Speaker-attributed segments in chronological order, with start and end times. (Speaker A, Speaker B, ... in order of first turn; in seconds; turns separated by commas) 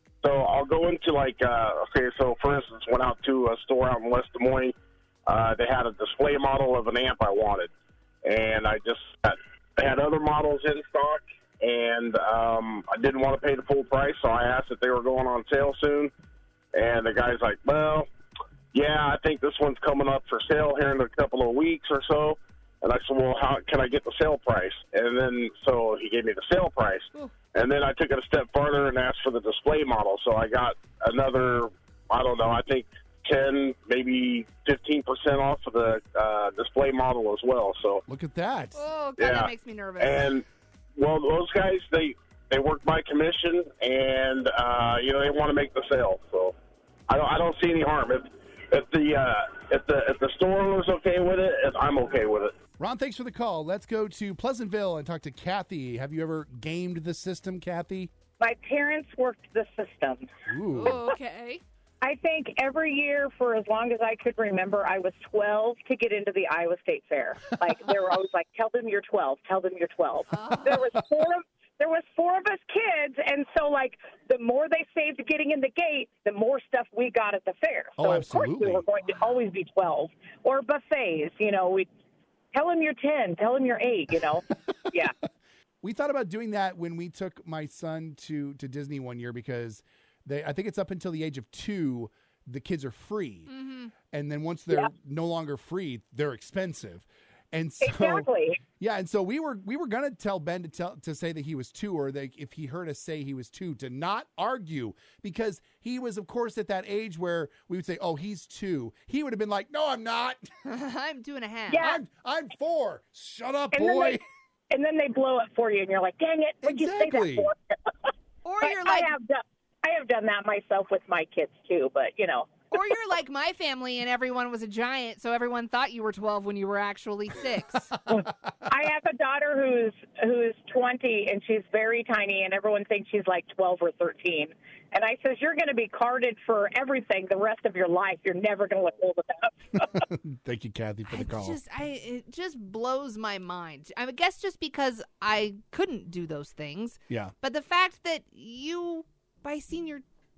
Speaker A: 0.2-4.7, Speaker A: 5.2-7.7, Speaker A: 8.2-16.1, Speaker A: 16.7-18.1, Speaker A: 18.7-38.0, Speaker B: 38.1-38.8, Speaker C: 38.7-40.4, Speaker A: 39.2-40.4, Speaker A: 41.0-46.5, Speaker A: 47.1-52.5, Speaker B: 52.8-58.1, Speaker D: 58.4-60.3, Speaker B: 60.5-61.0, Speaker C: 60.7-61.6, Speaker D: 62.0-81.9, Speaker C: 70.3-70.9, Speaker B: 78.0-78.8, Speaker D: 82.5-85.1, Speaker B: 85.8-93.5, Speaker C: 93.5-93.9, Speaker B: 94.1-98.3, Speaker D: 97.8-98.6, Speaker B: 98.8-110.5, Speaker C: 110.7-111.9, Speaker D: 111.7-112.0, Speaker B: 111.8-114.2, Speaker D: 113.7-114.2, Speaker D: 114.7-117.5, Speaker B: 116.6-117.5, Speaker C: 118.4-119.1, Speaker D: 118.6-122.5, Speaker C: 122.7-128.0, Speaker D: 128.7-140.0, Speaker B: 140.0-141.6, Speaker C: 141.1-150.0